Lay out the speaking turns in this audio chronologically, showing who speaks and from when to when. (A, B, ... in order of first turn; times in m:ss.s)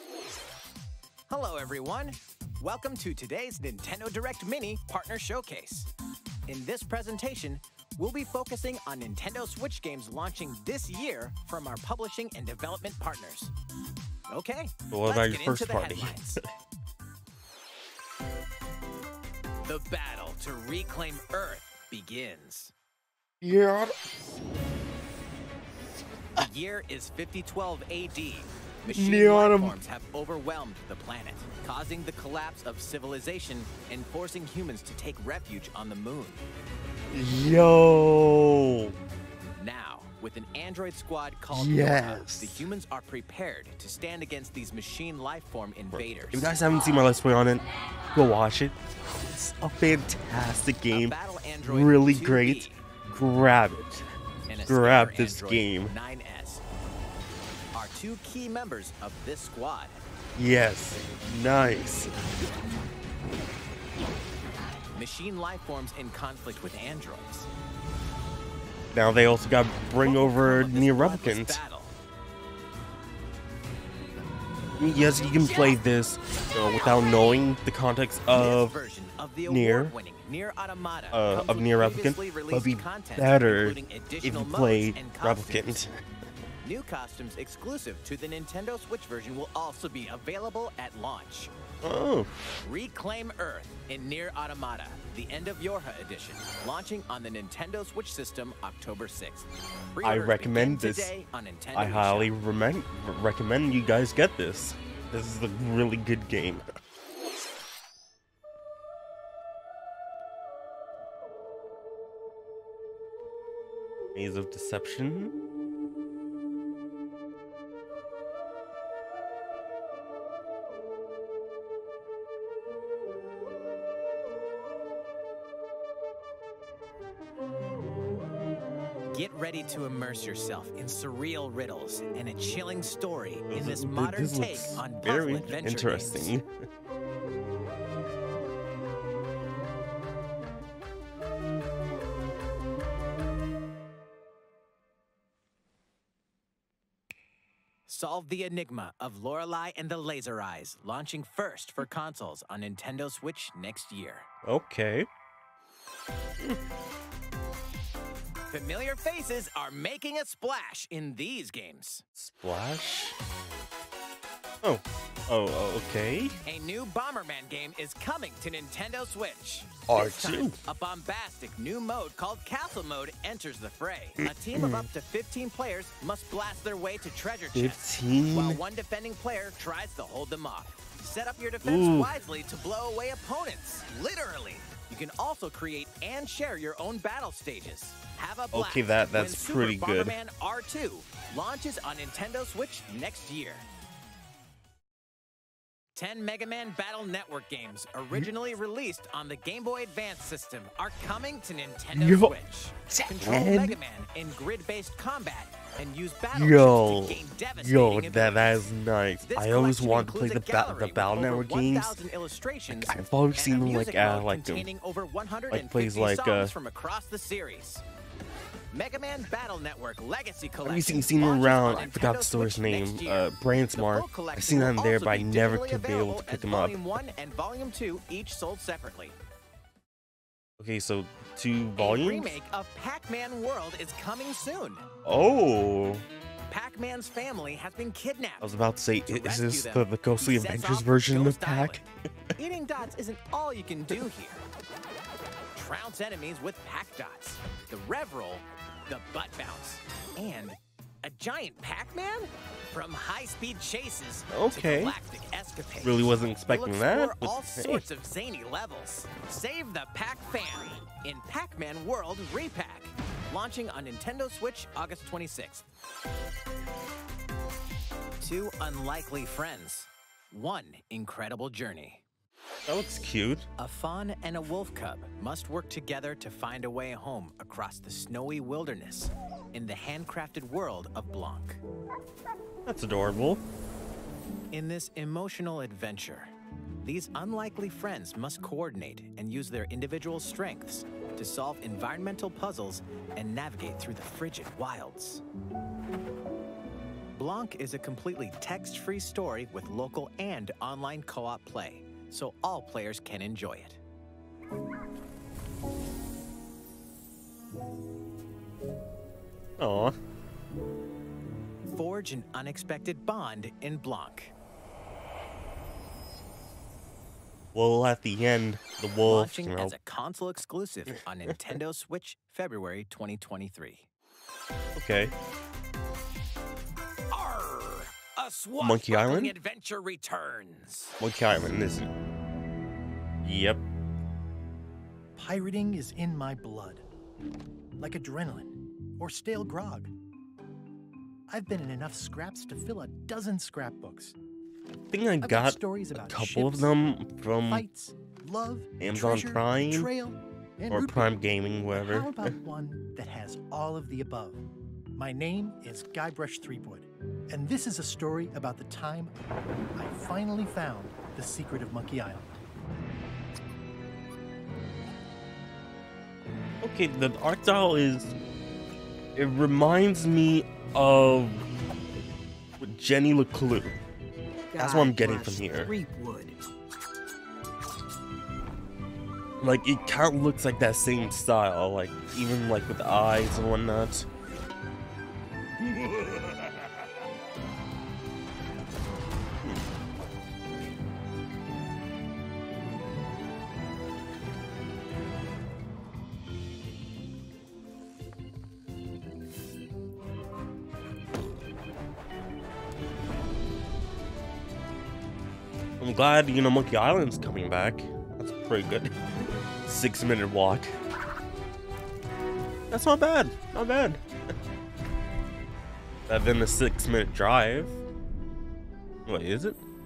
0:01.3-0:05.9 A
0:06.5-0:13.5 A
0:14.3-0:16.4 A
0:14.9-0:16.4 B
0:19.6-0:22.7 A
0:23.4-0:24.0 B
0:26.4-0:36.4 A
0:28.9-0:29.8 B
0:37.1-0:38.9 B
0:39.6-0:46.6 A
0:41.5-0:42.7 B
0:45.9-0:54.0 B
0:50.9-0:52.8 A
0:54.5-0:56.6 A
0:54.6-0:55.9 B
0:57.7-1:00.0 A
1:00.4-1:02.1 B
1:04.9-1:07.5 A
1:08.9-1:11.6 B
1:09.9-1:11.9 A
1:14.8-1:18.8 B
1:18.3-1:25.8 A
1:19.4-1:19.9 B
1:21.1-1:25.9 B
1:26.6-1:31.5 A
1:31.8-1:32.3 B
1:32.6-1:42.3 A
1:40.0-1:41.1 B
1:41.7-1:46.6 B
1:54.1-1:55.3 B
2:09.1-2:16.3 A
2:13.5-2:16.5 B
2:27.9-2:34.3 A
2:34.4-2:35.1 B
2:38.5-2:42.0 A
2:42.1-2:43.2 B
2:44.6-2:46.4 B
2:46.4-3:13.6 A
2:49.9-2:50.6 B
2:54.2-2:54.9 B
2:57.5-2:58.6 B
3:01.6-3:02.1 B
3:08.5-3:10.2 B
3:16.0-3:28.6 A
3:21.9-3:22.4 B
3:22.9-3:23.8 B
3:26.3-3:32.0 B
3:29.2-3:37.8 A
3:32.7-3:34.7 B
3:35.5-3:36.5 B
3:38.7-3:49.2 A
3:40.6-3:46.8 B
3:50.6-3:52.4 B
3:51.8-3:54.9 A
3:55.0-3:56.0 B
3:56.5-3:58.5 A
3:58.4-4:01.9 B
3:59.0-4:04.4 A
4:05.5-4:25.6 A
4:14.3-4:14.9 B
4:15.8-4:17.8 B
4:28.2-4:32.0 A
4:32.6-4:33.5 B
4:33.6-4:41.6 A
4:42.7-4:43.4 B
4:44.5-4:55.2 A
4:57.1-5:03.8 A
5:09.6-5:10.0 B
5:11.6-5:14.3 A
5:17.5-5:19.7 B
5:19.0-5:23.9 A
5:24.7-5:25.1 B
5:27.1-5:31.0 A
5:28.6-5:29.3 B
5:31.0-5:31.9 B
5:33.2-5:33.6 B
5:35.2-5:36.8 C
5:37.8-5:39.9 C
5:41.3-5:44.1 C
5:44.9-5:47.6 B
5:45.2-5:46.7 C
5:47.5-5:51.2 C
5:48.8-5:49.9 B
5:50.7-5:52.4 B
5:51.7-5:59.1 C
5:59.8-6:02.3 C
6:06.6-6:08.2 B
6:09.2-6:11.4 B
6:12.6-6:13.8 B
6:14.6-6:15.7 B
6:19.4-6:24.1 B
6:25.6-6:26.8 B
6:45.8-6:48.9 B
6:49.6-6:50.7 B
6:52.7-6:54.3 B
6:56.1-6:57.8 B
6:59.0-6:59.6 B